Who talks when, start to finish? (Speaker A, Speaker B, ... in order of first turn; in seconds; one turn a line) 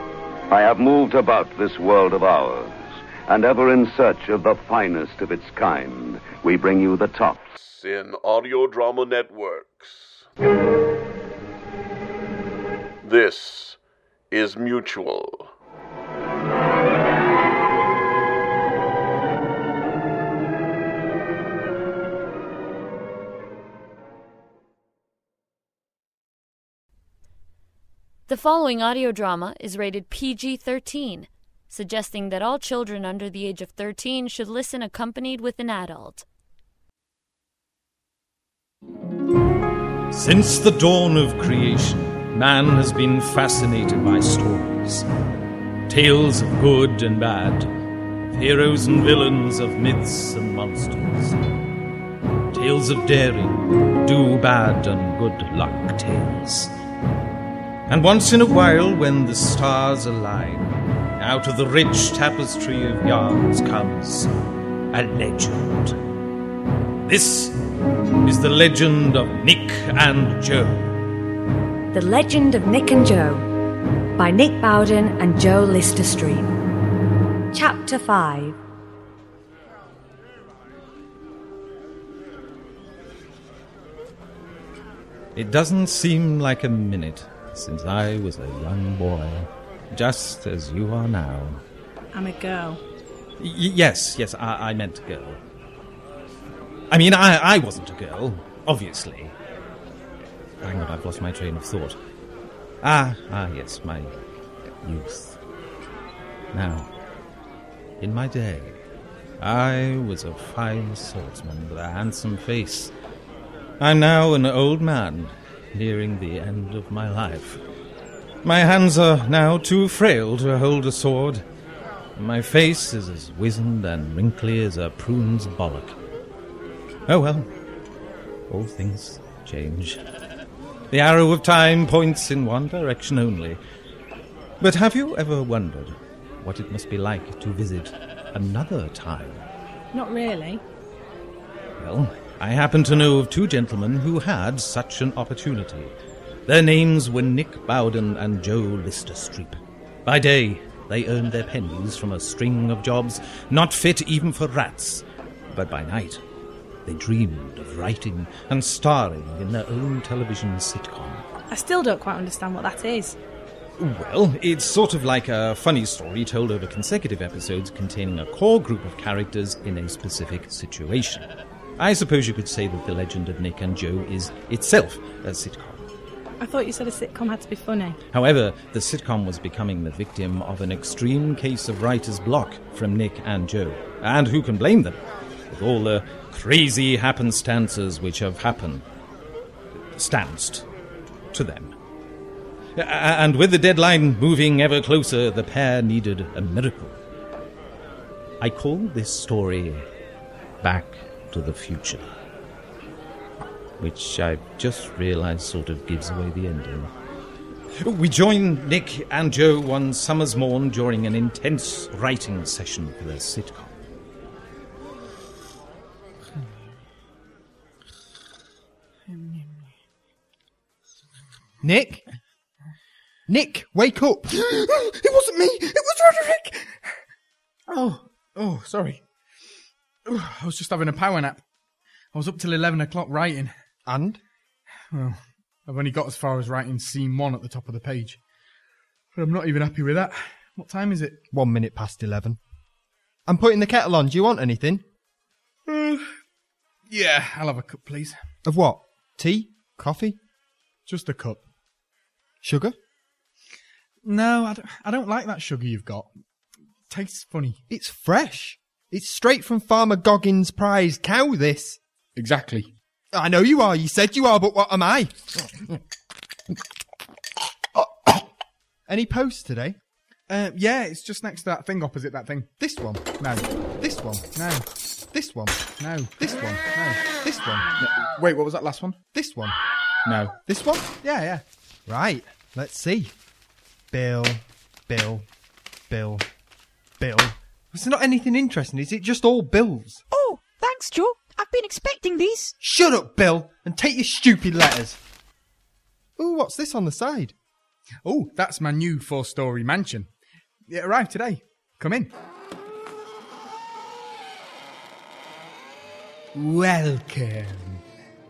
Speaker A: 0.5-7.5
Speaker B: 7.6-10.3
Speaker B: 13.0-13.8
Speaker B: 14.3-15.5
Speaker C: 28.3-36.2
Speaker D: 40.1-45.1
Speaker D: 45.9-47.7
Speaker D: 48.3-51.4
Speaker D: 52.5-56.7
Speaker D: 57.9-64.3
Speaker D: 64.9-66.0
Speaker D: 67.0-67.6
Speaker D: 68.2-70.9
Speaker E: 71.9-73.5
Speaker E: 74.2-76.5
Speaker E: 77.5-78.6
Speaker D: 85.3-91.6
Speaker F: 92.1-92.8
Speaker D: 93.4-95.4
Speaker D: 96.9-99.3
Speaker D: 100.6-102.0
Speaker D: 102.8-104.2
Speaker D: 104.8-105.4
Speaker D: 106.5-106.9
Speaker D: 108.0-108.8
Speaker D: 109.4-112.9
Speaker D: 113.8-117.6
Speaker D: 118.4-121.4
Speaker D: 122.2-126.0
Speaker D: 127.1-127.5
Speaker D: 128.5-130.0
Speaker D: 130.9-133.6
Speaker D: 134.6-139.5
Speaker F: 139.9-140.6
Speaker D: 141.8-145.9
Speaker D: 146.5-156.2
Speaker D: 156.8-161.2
Speaker F: 161.5-163.2
Speaker D: 163.8-171.3
Speaker D: 171.8-175.9
Speaker F: 176.4-178.0
Speaker D: 178.1-185.0
Speaker D: 185.5-188.8
Speaker D: 189.8-190.7
Speaker D: 191.3-191.7
Speaker D: 192.7-197.0
Speaker D: 198.4-199.8
Speaker D: 200.6-202.1
Speaker D: 203.8-206.9
Speaker D: 207.8-213.7
Speaker G: 219.1-219.6
Speaker H: 221.6-222.0
Speaker H: 223.3-224.3
Speaker G: 224.3-226.9
Speaker G: 227.7-229.0
Speaker G: 230.1-231.4
Speaker G: 232.1-233.5
Speaker H: 233.8-234.2
Speaker G: 234.9-238.2
Speaker G: 239.1-241.2
Speaker H: 241.3-242.4
Speaker H: 243.3-244.8
Speaker G: 245.7-246.1
Speaker G: 246.9-248.2
Speaker H: 248.4-250.2
Speaker G: 250.9-251.4
Speaker H: 252.4-252.8
Speaker G: 254.0-256.1
Speaker G: 256.9-257.6
Speaker H: 257.7-261.8
Speaker G: 262.1-262.7
Speaker H: 263.1-265.5
Speaker H: 268.9-269.8
Speaker G: 270.3-272.5
Speaker H: 272.6-273.1
Speaker G: 273.2-273.5
Speaker H: 273.8-274.3
Speaker G: 274.3-274.6
Speaker H: 275.1-275.6
Speaker G: 275.8-277.0
Speaker H: 276.2-277.7
Speaker G: 277.8-279.0
Speaker H: 279.1-279.5
Speaker G: 280.0-280.4
Speaker H: 280.4-280.9
Speaker G: 281.0-281.4
Speaker H: 281.9-283.1
Speaker H: 283.9-285.3
Speaker H: 285.9-286.3
Speaker H: 287.0-290.1
Speaker I: 290.1-292.5
Speaker H: 292.6-295.0
Speaker H: 296.2-297.3
Speaker G: 298.0-300.1
Speaker G: 300.7-302.1
Speaker G: 306.3-307.8